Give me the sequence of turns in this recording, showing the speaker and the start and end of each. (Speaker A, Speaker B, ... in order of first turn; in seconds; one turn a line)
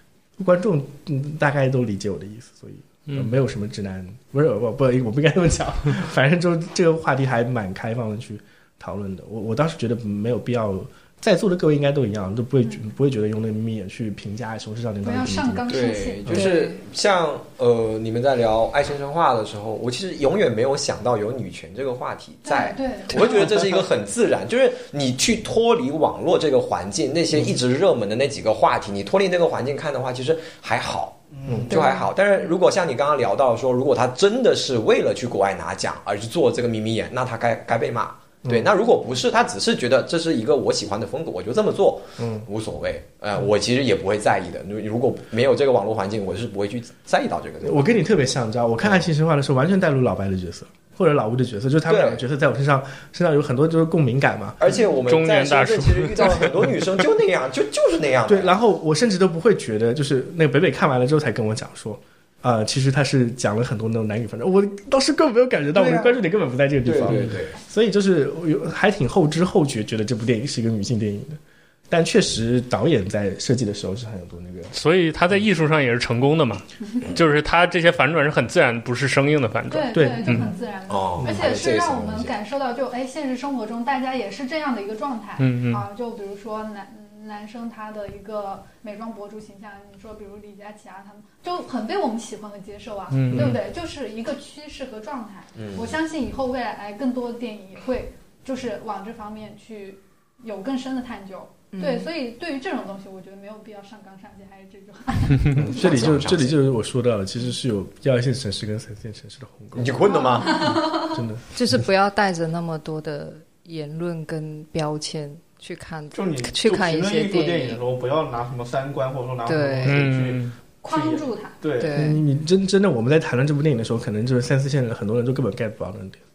Speaker A: 0.4-15.7
Speaker B: 15.0-16.4
Speaker C: 15.7-31.2
Speaker A: 16.2-16.5
Speaker D: 16.4-16.8
Speaker B: 22.4-23.5
Speaker E: 31.3-31.9
Speaker A: 31.5-31.7
Speaker C: 31.7-48.0
Speaker D: 31.7-32.1
Speaker A: 38.4-38.7
Speaker A: 42.2-42.5
Speaker A: 47.6-54.7
Speaker C: 51.9-52.2
Speaker C: 54.6-58.5
Speaker F: 55.0-56.9
Speaker A: 58.3-74.7
Speaker C: 65.7-66.2
Speaker C: 66.8-67.5
Speaker F: 74.7-80.5
Speaker B: 79.7-105.6
Speaker A: 79.9-80.5
Speaker C: 80.9-82.3
Speaker F: 85.4-85.8
Speaker F: 93.1-93.6
Speaker C: 95.6-95.9
Speaker D: 101.7-102.1
Speaker A: 105.5-111.4
Speaker C: 105.6-106.6
Speaker C: 109.7-110.8
Speaker D: 111.5-117.8
Speaker E: 116.1-122.0
Speaker D: 119.4-120.1
Speaker F: 119.8-120.5
Speaker B: 120.8-121.6
Speaker D: 121.8-122.2
Speaker A: 121.9-126.2